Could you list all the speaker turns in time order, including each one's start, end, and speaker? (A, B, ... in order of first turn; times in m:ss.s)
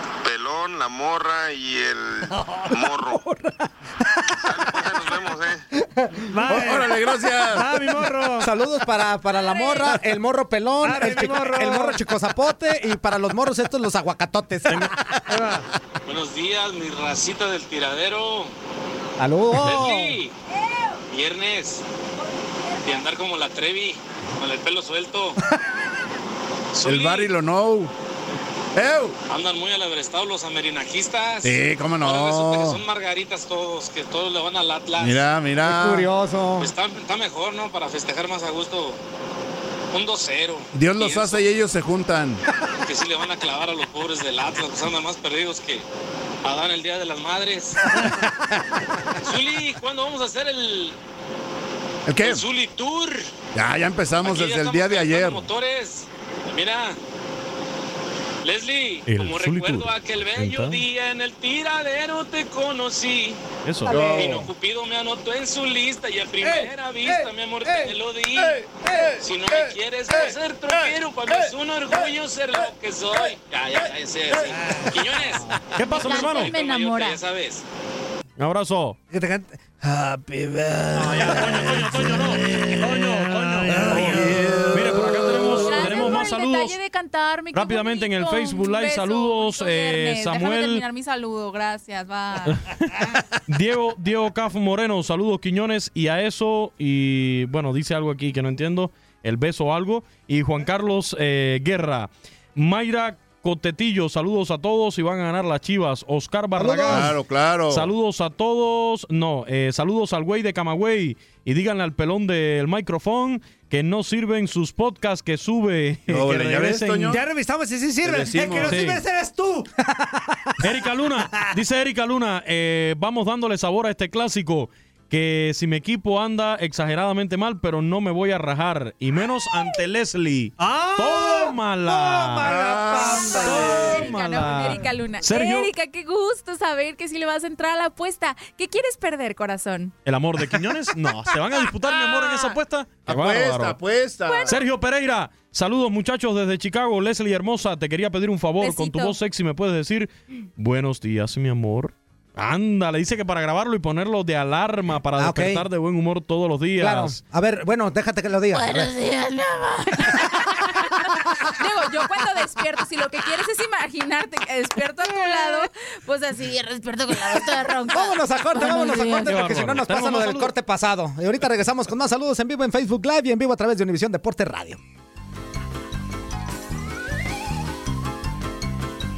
0:00.2-0:03.2 A
0:02.4-0:02.7 B
0:04.4-0:05.6 A
0:06.0-0:06.3 C
0:06.3-0:08.5 B
0:06.5-0:07.7 D
0:08.4-0:15.0 C
0:09.4-0:09.7 E
0:10.8-0:12.0 B
0:15.3-0:15.7 B
0:16.0-0:18.5 F
0:19.2-0:20.2 C
0:19.6-0:20.3 F
0:21.1-0:21.8 F
0:22.8-0:25.4 F
0:26.7-0:27.3 F
0:26.8-0:27.9 D
0:28.7-0:29.2 D
0:29.3-0:35.2 F
0:31.4-0:32.8 D
0:35.0-0:36.1 D
0:35.6-0:36.7 C
0:36.6-0:39.0 F
0:39.9-0:41.4 F
0:40.7-0:42.4 D
0:42.8-0:45.8 F
0:46.4-0:47.8 F
0:49.2-0:51.0 F
0:52.0-0:52.4 D
0:52.2-0:53.3 F
0:53.5-0:55.5 D
0:54.2-0:57.0 F
0:58.4-1:03.4 F
0:59.0-1:00.8 G
1:03.6-1:04.2 G
1:03.9-1:04.4 C
1:03.9-1:04.5 D
1:04.0-1:08.6 F
1:06.4-1:07.9 B
1:09.2-1:17.6 F
1:14.5-1:15.4 B
1:15.8-1:16.5 G
1:15.8-1:17.2 E
1:18.4-1:19.0 G
1:19.1-1:24.6 B
1:20.9-1:26.7 G
1:23.7-1:25.8 D
1:25.6-1:32.6 E
1:27.5-1:30.8 G
1:32.6-1:47.2 G
1:46.6-1:47.1 C
1:46.9-1:47.9 D
1:47.7-1:57.2 G
1:56.1-1:57.2 D
1:57.1-1:59.7 B
1:58.0-1:58.8 D
1:58.6-1:59.0 G
2:00.0-2:00.6 C
2:00.6-2:15.7 G
2:10.6-2:13.9 B
2:12.4-2:14.0 D
2:13.0-2:19.9 E
2:20.0-2:23.8 G
2:21.8-2:22.6 E
2:23.1-2:24.6 D
2:24.2-2:24.6 E
2:24.5-2:37.2 G
2:28.6-2:29.2 E
2:35.2-2:35.6 C
2:36.8-2:38.9 C
2:38.5-2:40.9 E
2:40.1-2:40.5 C
2:41.5-2:49.4 E
2:45.1-2:45.6 C
2:47.8-2:54.8 C
2:49.2-2:50.5 G